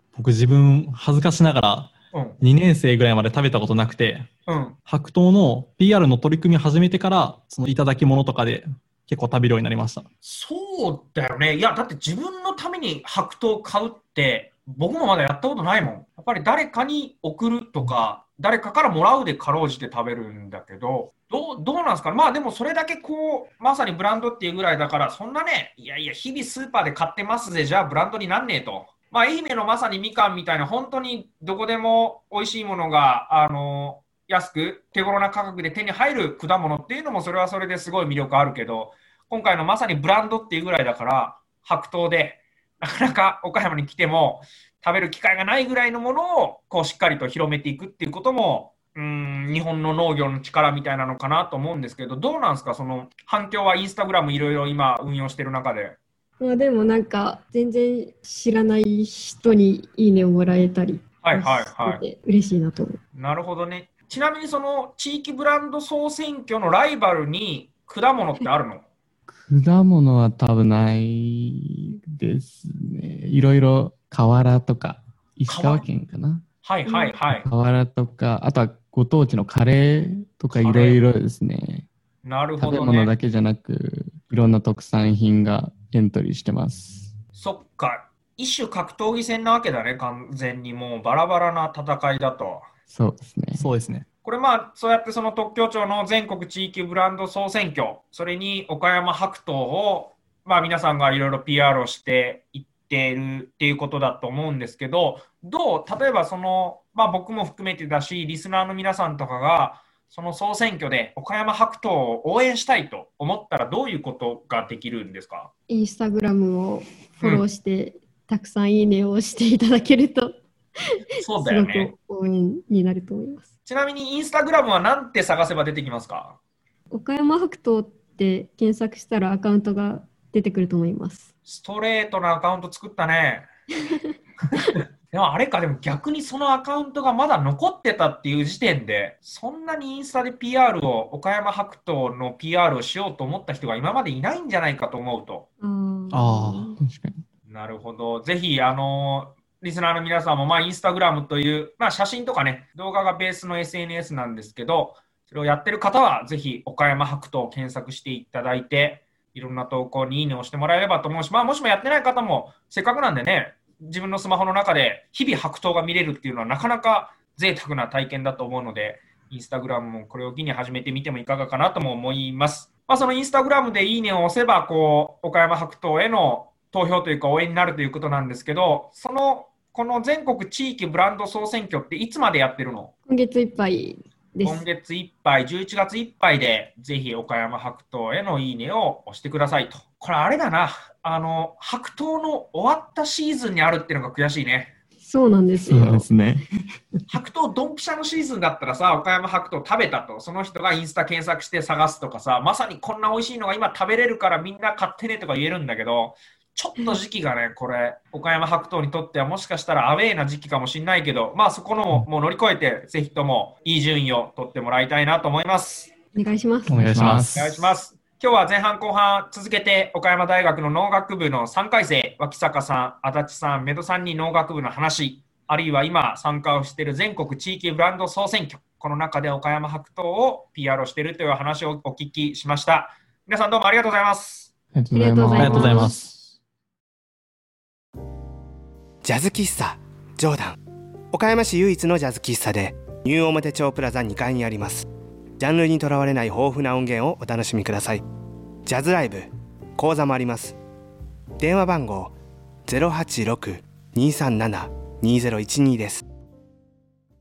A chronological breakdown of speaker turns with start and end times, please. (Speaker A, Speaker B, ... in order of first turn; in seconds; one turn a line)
Speaker A: 0.1-4.3
Speaker B: 2.1-2.4
Speaker B: 4.5-4.8
Speaker A: 4.8-10.1
Speaker B: 10.2-56.0
Speaker C: 56.4-63.0
Speaker B: 61.2-62.0
Speaker B: 63.1-68.8
Speaker D: 69.3-76.4
Speaker B: 75.5-75.8
Speaker B: 76.6-77.5
Speaker C: 76.9-77.1
Speaker D: 77.3-81.9
Speaker B: 80.5-81.0
Speaker B: 82.2-83.1
Speaker D: 82.6-87.1
Speaker B: 87.3-92.7
Speaker D: 92.9-93.7
Speaker A: 93.5-94.0
Speaker B: 94.2-115.5
Speaker C: 115.7-120.4
Speaker B: 121.2-121.9
Speaker C: 121.2-123.5
Speaker B: 123.7-126.4
Speaker C: 126.9-131.3
Speaker B: 131.4-133.4
Speaker B: 134.5-145.5
Speaker C: 145.6-146.8
Speaker A: 146.1-146.7
Speaker D: 146.8-147.2
Speaker B: 147.5-182.9
Speaker C: 183.1-184.6
Speaker B: 184.4-194.7
Speaker C: 195.0-196.1
Speaker D: 195.6-196.5
Speaker B: 197.1-215.9
Speaker C: 216.1-216.9
Speaker A: 216.7-217.6
Speaker D: 216.7-217.5
Speaker B: 217.3-234.5
Speaker D: 234.7-236.2
Speaker C: 234.9-236.0
Speaker A: 235.3-236.1
Speaker E: 239.0-240.6
Speaker E: 241.1-244.8
Speaker E: 245.4-248.0
Speaker E: 248.7-250.6
Speaker E: 251.4-252.1
Speaker E: 252.7-256.0